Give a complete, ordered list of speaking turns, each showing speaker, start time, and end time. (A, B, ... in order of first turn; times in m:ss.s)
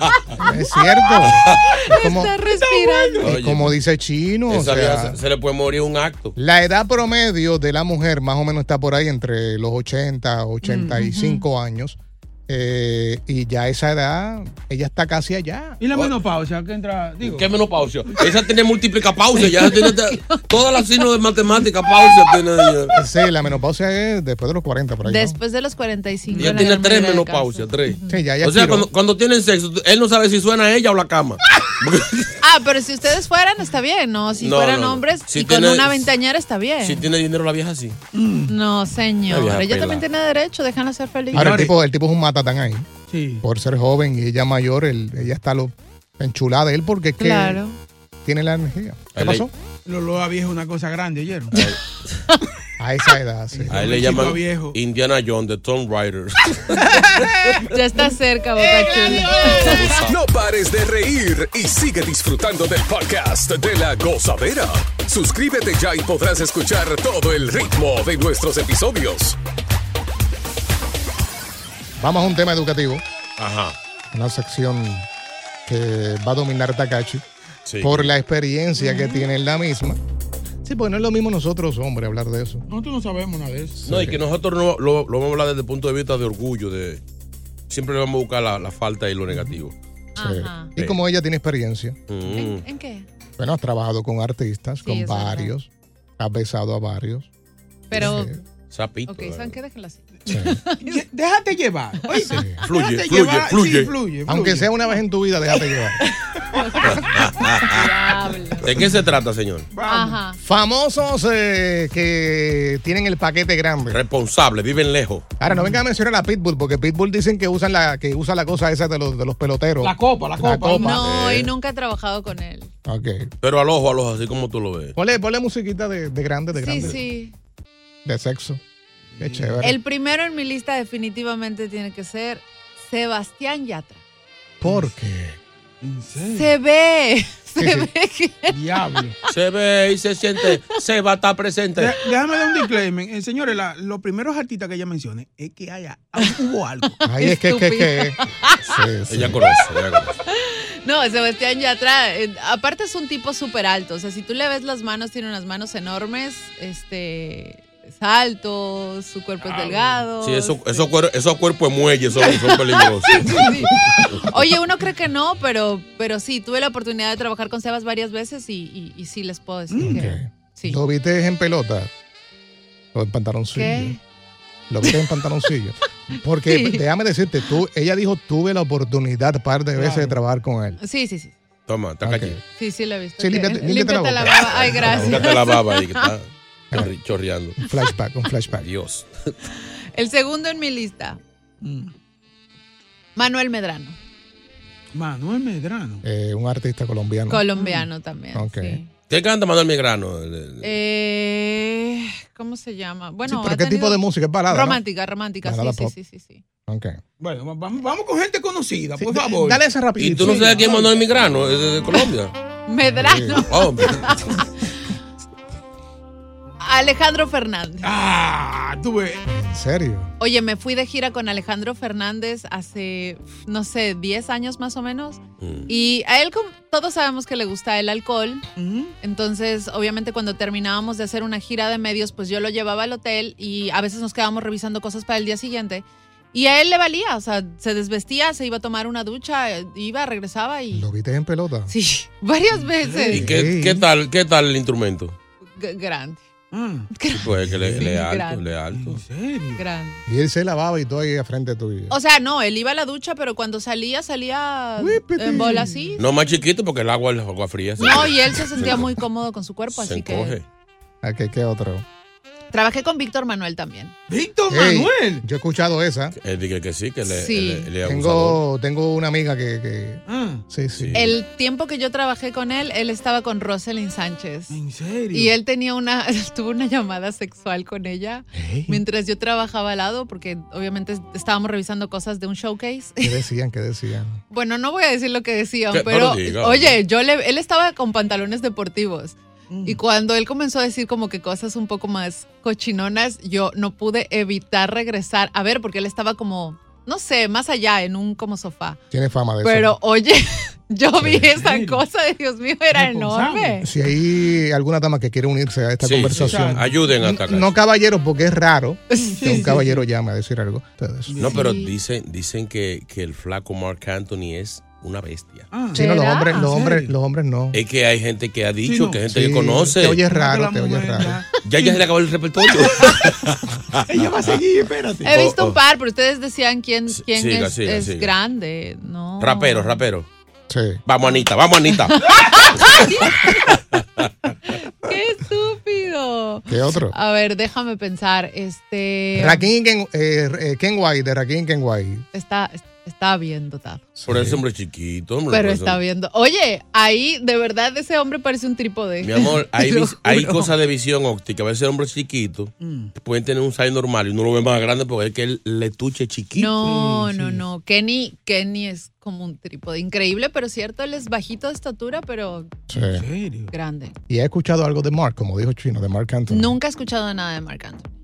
0:00.4-0:02.4 A
0:00.7-0:03.3 B
0:01.2-0:01.6 C
0:02.4-0:03.3 D
0:03.2-0:03.8 C
0:03.2-0:05.2 A
0:04.5-0:06.4 C
0:06.4-0:15.8 A
0:10.6-0:11.1 D
0:11.0-0:11.4 B
0:15.8-0:17.5 D
0:17.2-0:23.0 C
0:19.7-0:20.4 B
0:22.9-0:25.4 A
0:25.0-0:28.2 B
0:26.3-0:26.6 D
0:26.4-0:32.3 C
0:28.1-0:28.9 A
0:32.4-0:37.1 B
0:34.4-0:36.1 C
0:36.8-0:38.0 C
0:38.1-0:38.5 D
0:38.5-0:41.7 B
0:39.3-0:40.1 C
0:41.3-0:41.7 D
0:41.3-0:42.9 A
0:43.1-0:43.4 D
0:43.4-0:47.6 A
0:47.2-0:47.8 B
0:48.2-0:49.5 A
0:49.1-0:49.5 C
0:49.9-0:51.6 D
0:52.8-0:54.1 A
0:53.5-0:54.8 D
0:53.7-0:56.8 C
0:57.6-1:00.0 B
0:58.6-0:59.8 D
0:59.4-1:00.2 C
1:00.1-1:09.4 E
1:12.0-1:13.0 A
1:13.4-1:13.8 C
1:14.1-1:15.1 A
1:15.7-1:17.2 A
1:17.7-1:18.1 C
1:17.8-1:20.0 A
1:20.6-1:22.6 A
1:22.7-1:23.8 D
1:23.8-1:24.2 A
1:23.9-1:27.0 C
1:27.7-1:29.7 C
1:30.2-1:30.7 B
1:30.2-1:32.0 A
1:32.1-1:32.6 C
1:32.3-1:33.1 B
1:33.4-1:37.3 A
1:34.8-1:35.5 B
1:37.9-1:38.3 B
1:37.9-1:38.4 A
1:38.7-1:39.6 C
1:39.1-1:41.1 B
1:40.3-1:40.6 A
1:40.8-1:44.7 D
1:42.0-1:42.3 B
1:42.3-1:42.6 A
1:42.6-1:43.9 C
1:44.3-1:46.0 A
1:45.5-1:48.7 B
1:46.8-1:47.9 C
1:48.6-1:49.7 C
1:49.7-1:50.2 D
1:49.8-1:50.4 B
1:50.4-1:54.0 A
1:53.9-1:55.3 C
1:55.4-2:01.0 A
1:55.5-1:55.8 D
1:59.8-2:01.0 D
2:00.7-2:02.7 B
2:01.0-2:01.5 C
2:02.9-2:03.3 A
2:03.4-2:05.0 C
2:05.0-2:07.0 A
2:06.5-2:07.3 B
2:08.0-2:08.6 A
2:09.1-2:09.7 D
2:09.2-2:09.8 A
2:09.6-2:14.0 B
2:14.6-2:15.4 A
2:14.6-2:14.9 D
2:15.8-2:16.5 D
2:16.3-2:18.6 B
2:17.6-2:17.9 A
2:18.5-2:19.2 D
2:19.3-2:22.0 C
2:21.8-2:27.0 D
2:27.0-2:29.4 A
2:27.1-2:28.8 B
2:29.1-2:30.1 C
2:30.3-2:40.9 B
2:39.4-2:40.0 D
2:40.2-2:43.5 C
2:42.2-2:50.8 B
2:49.7-2:50.1 D
2:49.8-2:51.9 A
2:52.9-2:54.0 A
2:53.6-2:54.0 B
2:54.7-3:00.8 A
2:54.8-2:55.2 B
2:56.4-2:56.8 B
2:59.8-3:00.2 D
3:00.8-3:01.4 B
3:01.7-3:02.4 C
3:02.0-3:02.4 A
3:02.5-3:06.1 B
3:03.2-3:05.2 A
3:04.5-3:07.6 C
3:07.6-3:08.7 A
3:07.6-3:07.9 B
3:08.5-3:09.4 C
3:10.0-3:11.2 B
3:11.6-3:11.9 D
3:13.2-3:14.0 B
3:14.9-3:16.0 D
3:16.0-3:17.5 A
3:17.3-3:18.9 B
3:17.6-3:17.9 D
3:18.3-3:18.8 A
3:19.1-3:20.8 C
3:20.6-3:26.4 B
3:23.3-3:24.8 A
3:25.4-3:25.9 A
3:26.7-3:27.0 A
3:27.2-3:29.6 D
3:29.0-3:30.8 A
3:30.0-3:32.3 C
3:30.2-3:30.9 D
3:32.7-3:34.5 B
3:33.0-3:33.4 A
3:33.5-3:34.2 C
3:36.6-3:37.9 B
3:37.8-3:39.2 D
3:39.3-3:40.1 A
3:40.2-3:48.5 B
3:45.4-3:45.7 C
3:48.6-3:48.9 D
3:49.0-4:00.9 B
4:00.7-4:01.7 A
4:01.7-4:03.3 B
4:02.5-4:03.2 D
4:03.1-4:05.2 C
4:03.1-4:03.9 A
4:05.6-4:06.2 B
4:06.5-4:06.9 D
4:06.9-4:08.5 B
4:07.1-4:09.0 C
4:08.7-4:09.6 D
4:09.6-4:10.0 B
4:10.1-4:12.0 A
4:11.9-4:16.0 B
4:14.8-4:15.7 A
4:16.0-4:19.0 C
4:17.8-4:20.4 B
4:19.7-4:20.4 C
4:21.0-4:21.8 A
4:22.5-4:24.0 B
4:24.1-4:25.2 D
4:24.5-4:26.2 A
4:26.2-4:28.4 C
4:27.0-4:27.7 B
4:27.8-4:31.1 A
4:30.1-4:30.4 D
4:30.8-4:31.2 C
4:30.9-4:34.6 B
4:34.5-4:35.4 D
4:35.1-4:43.2 B
4:38.3-4:38.8 A
4:43.0-4:44.2 A
4:44.3-4:58.8 B
4:45.7-4:46.8 C
4:49.5-4:49.8 D
4:58.9-4:59.8 A
4:59.4-5:03.7 B
5:01.0-5:01.3 A
5:01.3-5:01.8 D
5:02.7-5:03.6 D
5:03.6-5:11.3 A
5:05.8-5:07.6 C
5:06.1-5:06.7 D
5:08.9-5:09.3 B
5:09.0-5:09.8 D
5:11.1-5:11.4 D
5:11.2-5:15.5 C
5:11.3-5:11.8 B
5:15.5-5:16.9 D
5:15.7-5:16.6 B
5:15.8-5:17.6 A
5:17.5-5:20.0 C
5:18.6-5:19.0 D
5:19.1-5:21.2 A
5:20.1-5:21.8 D
5:21.4-5:23.8 C
5:23.9-5:25.2 D
5:25.0-5:29.8 B
5:25.1-5:25.6 C
5:26.9-5:28.1 C
5:29.2-5:30.1 C
5:30.5-5:30.8 A
5:30.9-5:32.0 C
5:31.8-5:33.6 B
5:34.5-5:39.5 B
5:36.5-5:37.0 A
5:39.2-5:42.1 A
5:42.1-5:43.9 B
5:44.0-5:44.4 A
5:44.1-5:45.8 C
5:45.3-5:50.5 B
5:49.0-5:56.5 C
5:52.6-5:52.9 D
5:56.4-6:02.7 B
5:56.6-5:57.4 D
6:02.7-6:03.1 A
6:02.8-6:03.5 D
6:03.5-6:04.0 B
6:04.1-6:06.6 A
6:06.3-6:07.9 B